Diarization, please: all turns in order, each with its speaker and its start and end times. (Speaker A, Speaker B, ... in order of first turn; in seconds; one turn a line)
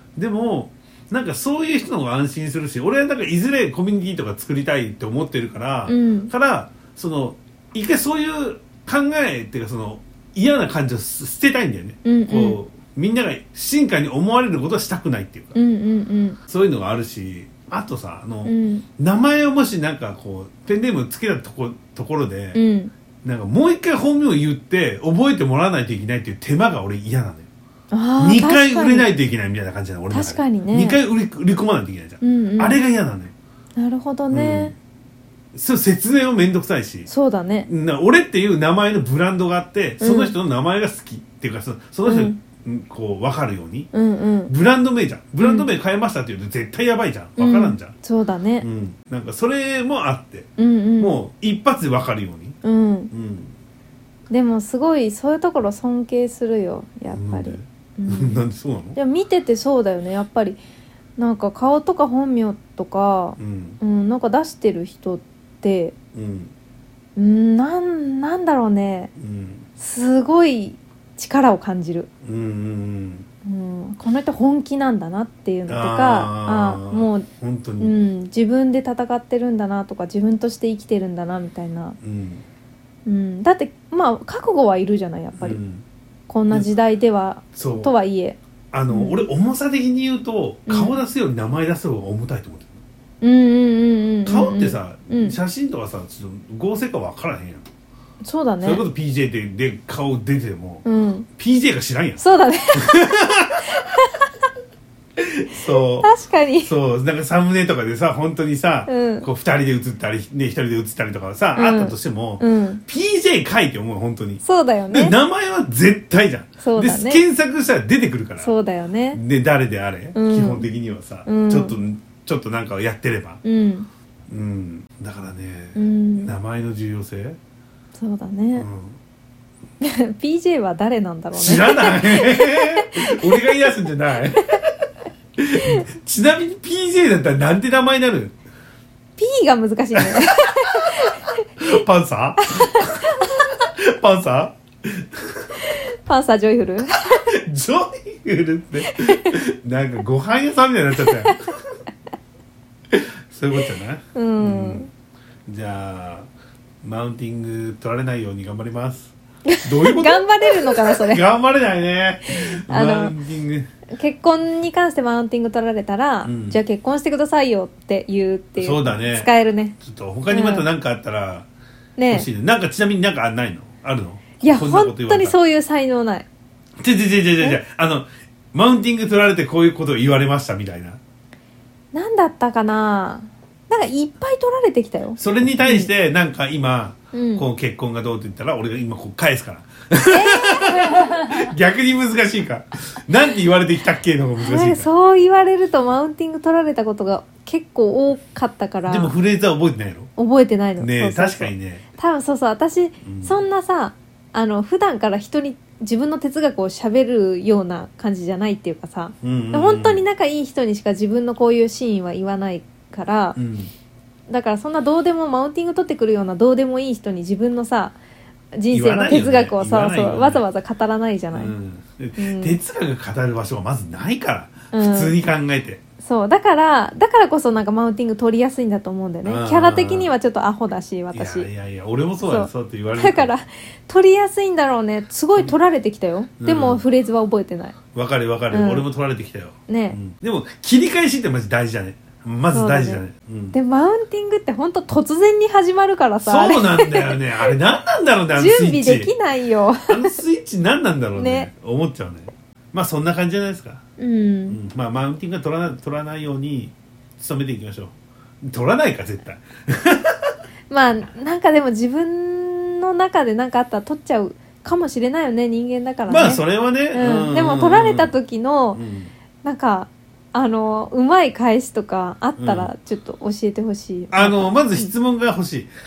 Speaker A: 0.1-15.6
Speaker B: 5.9-6.3
Speaker B: 12.1-12.6
Speaker B: 15.6-16.4
Speaker A: 16.5-22.6
Speaker B: 18.4-18.9
Speaker B: 22.6-22.9
Speaker A: 23.2-27.5
Speaker B: 27.9-29.1
Speaker A: 28.2-33.3
Speaker B: 30.1-31.0
Speaker B: 32.2-32.8
Speaker B: 33.8-34.7
Speaker A: 34.3-34.7
Speaker A: 35.5-37.1
Speaker B: 37.1-37.7
Speaker A: 37.7-43.9
Speaker B: 40.0-40.3
Speaker B: 42.1-42.4
Speaker B: 43.9-44.5
Speaker A: 44.5-47.9
Speaker B: 45.4-45.7
Speaker B: 47.4-48.6
Speaker A: 48.6-52.6
Speaker B: 50.6-51.2
Speaker B: 52.6-53.1
Speaker A: 53.1-53.5
Speaker B: 54.3-58.4
Speaker A: 57.1-59.0
Speaker B: 59.0-60.6
Speaker B: 61.2-65.9
Speaker A: 63.4-63.8
Speaker A: 66.1-66.5
Speaker B: 67.2-69.1
Speaker A: 69.2-69.7
Speaker B: 69.8-72.1
Speaker A: 72.2-73.3
Speaker B: 73.4-77.3
Speaker A: 75.7-77.9
Speaker B: 77.8-82.0
Speaker A: 82.0-82.4
Speaker B: 83.1-85.6
Speaker A: 85.4-85.8
Speaker B: 86.3-88.4
Speaker A: 87.5-87.9
Speaker A: 88.7-92.8
Speaker B: 88.9-89.2
Speaker B: 90.7-91.0
Speaker B: 93.2-95.4
Speaker A: 94.3-97.7
Speaker B: 98.2-98.8
Speaker A: 98.6-100.8
Speaker B: 100.8-101.3
Speaker A: 101.4-102.2
Speaker B: 102.2-104.3
Speaker A: 102.7-103.9
Speaker A: 105.2-118.5
Speaker B: 106.0-106.7
Speaker B: 108.9-109.3
Speaker B: 111.6-112.8
Speaker B: 114.4-115.1
Speaker B: 116.6-117.2
Speaker B: 118.4-119.2
Speaker A: 119.1-123.4
Speaker B: 120.1-120.7
Speaker B: 121.3-121.8
Speaker B: 123.4-123.9
Speaker A: 124.3-127.4
Speaker B: 125.8-126.4
Speaker B: 128.0-128.7
Speaker A: 128.6-129.0
Speaker B: 129.8-133.8
Speaker A: 131.3-134.6
Speaker A: 135.4-138.3
Speaker B: 139.2-141.4
Speaker A: 140.0-145.6
Speaker B: 142.4-143.5
Speaker B: 145.6-147.3
Speaker A: 146.9-151.5
Speaker B: 148.8-149.3
Speaker B: 151.0-151.5
Speaker A: 152.9-154.9
Speaker B: 154.1-154.9
Speaker A: 155.4-156.3
Speaker A: 156.8-163.7
Speaker B: 159.5-161.2
Speaker B: 162.3-163.1
Speaker B: 163.9-169.8
Speaker A: 166.2-166.6
Speaker A: 168.6-171.4
Speaker B: 170.3-170.6
Speaker B: 172.0-172.3
Speaker A: 172.1-175.4
Speaker B: 174.4-176.3
Speaker A: 176.8-181.0
Speaker B: 181.9-185.9
Speaker A: 185.2-194.9
Speaker B: 187.1-187.4
Speaker B: 190.1-191.5
Speaker B: 194.4-199.1
Speaker A: 198.9-200.1
Speaker B: 200.2-213.4
Speaker A: 200.8-201.8
Speaker A: 203.0-203.4
Speaker A: 209.2-210.1
Speaker A: 213.4-213.7
Speaker B: 214.3-218.0
Speaker B: 218.6-221.5
Speaker A: 218.7-220.4
Speaker A: 221.3-225.8
Speaker B: 222.2-222.6
Speaker B: 224.7-225.2
Speaker B: 226.0-231.5
Speaker A: 229.2-230.1
Speaker A: 231.1-233.3
Speaker B: 232.2-237.8
Speaker A: 236.4-236.8
Speaker A: 237.9-243.6
Speaker B: 238.5-238.9
Speaker B: 239.7-240.0
Speaker B: 242.5-243.0
Speaker B: 243.5-247.5
Speaker A: 246.2-249.1
Speaker B: 248.3-250.2
Speaker A: 249.9-253.8
Speaker B: 251.2-251.5
Speaker B: 254.0-254.6
Speaker A: 254.5-260.4
Speaker B: 260.7-266.4
Speaker A: 266.1-268.1
Speaker B: 266.9-268.8
Speaker A: 268.7-269.1
Speaker B: 269.4-274.9
Speaker A: 272.4-272.7
Speaker A: 274.1-275.7